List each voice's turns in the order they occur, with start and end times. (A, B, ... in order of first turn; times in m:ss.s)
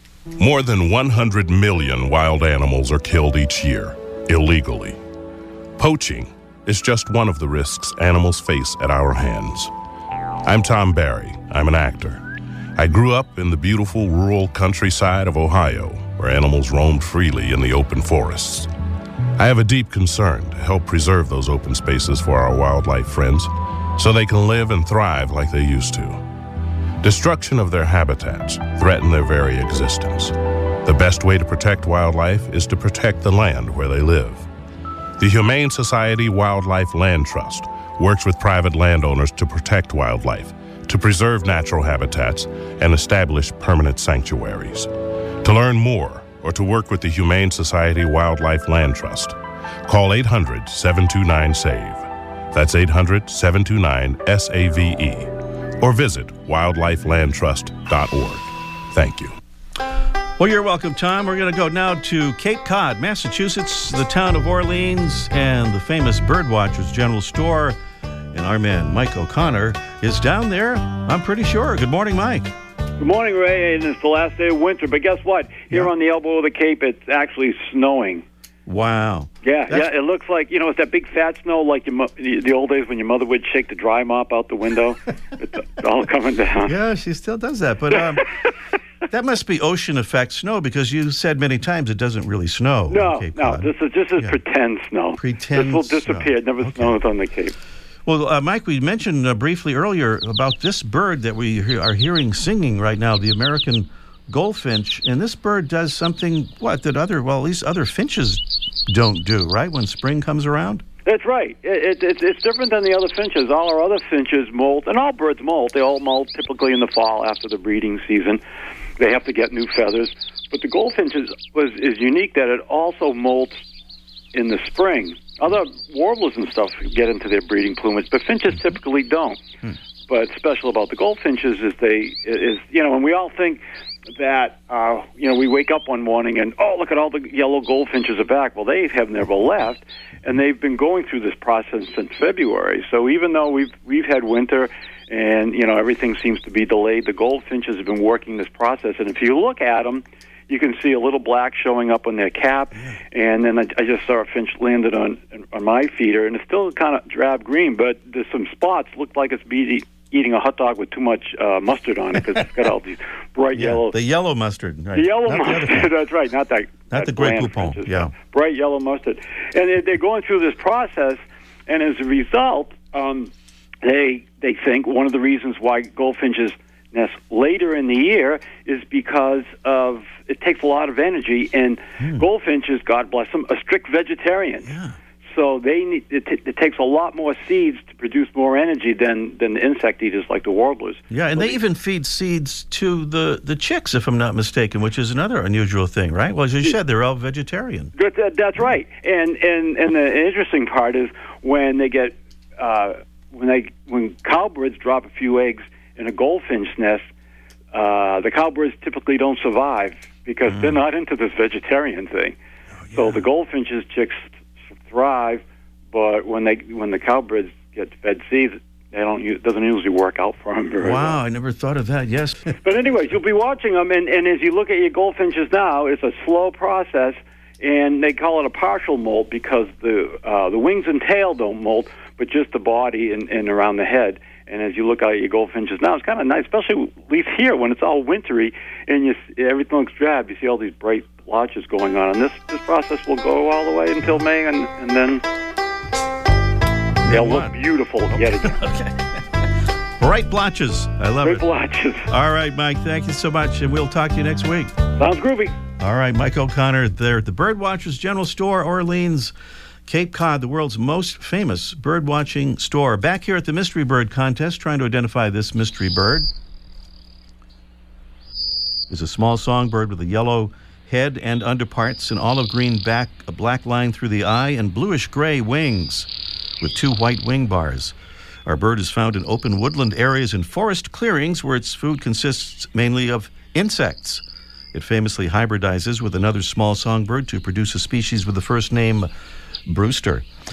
0:00.4-0:05.0 A
0:05.8-0:09.7 A
0:10.4-0:18.7 A
0:19.4-0:26.2 A
0:27.0-0:34.5 A
0:35.2-0:44.9 A
0:45.4-0:49.4 A
0:49.9-0:59.4 A
1:00.4-1:07.8 B
1:08.3-1:12.5 B
1:13.0-1:18.2 C
1:18.7-1:19.9 B
1:19.4-1:26.7 C
1:26.6-1:28.3 B
1:29.1-1:34.4 B
1:32.9-1:37.6 C
1:35.2-1:37.0 B
1:38.1-1:50.8 B
1:51.0-1:58.4 C
1:59.0-2:03.6 C
2:04.3-2:09.4 C
2:10.1-2:13.6 C
2:14.2-2:44.0 C
2:43.5-2:45.9 B
2:44.9-2:53.3 C
2:46.9-2:48.1 B
2:53.8-3:04.7 C
3:04.7-3:05.0 B
3:05.3-3:11.6 C
3:11.1-3:17.9 B
3:18.0-3:27.0 C
3:27.7-3:32.4 C
3:30.5-3:30.8 B
3:32.9-3:33.2 B
3:32.9-3:34.3 C
3:34.9-3:41.2 C
3:40.8-3:42.6 B
3:42.6-4:05.2 C
4:07.0-4:07.6 B
4:07.0-4:08.6 C
4:08.1-4:09.2 B
4:10.0-4:11.5 B
4:11.2-4:12.1 C
4:12.1-4:14.8 B
4:15.0-4:15.6 C
4:15.8-4:19.3 B
4:19.9-4:26.3 B
4:28.9-4:36.1 B
4:36.6-4:49.1 B
4:49.7-4:50.3 B